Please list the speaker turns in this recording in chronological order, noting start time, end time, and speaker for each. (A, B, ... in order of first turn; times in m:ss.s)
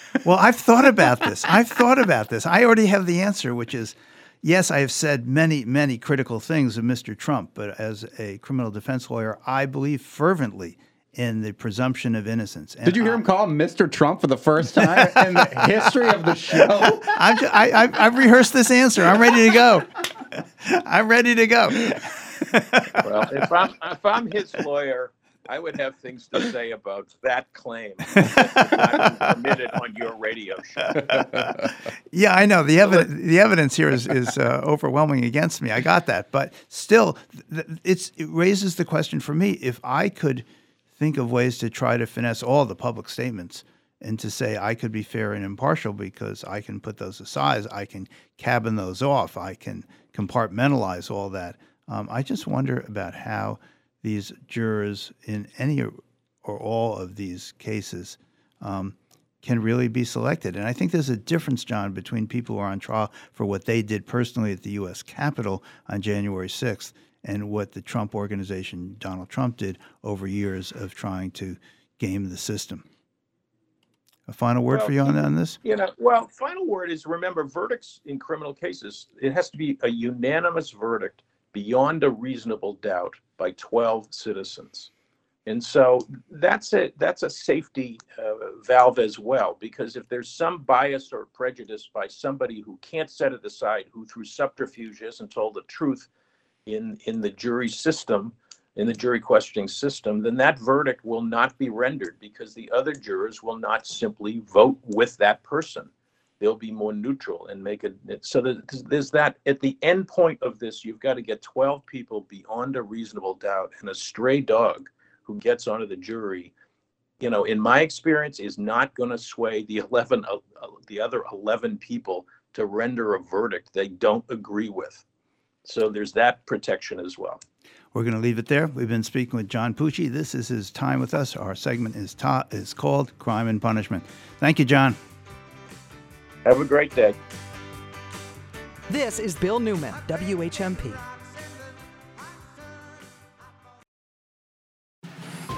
0:00.2-0:13.2 A
0:12.8-0:17.1 B
0:14.8-0:19.9 A
0:20.6-0:23.0 A
0:23.0-0:31.1 C
0:31.1-1:12.8 A
1:14.3-1:15.6 A
1:14.7-1:24.9 C
1:25.4-1:36.1 C
1:36.6-1:56.5 C
1:57.2-2:05.0 C
2:05.6-2:07.4 C
2:07.9-2:15.0 A
2:16.4-2:17.2 C
2:18.9-2:21.0 D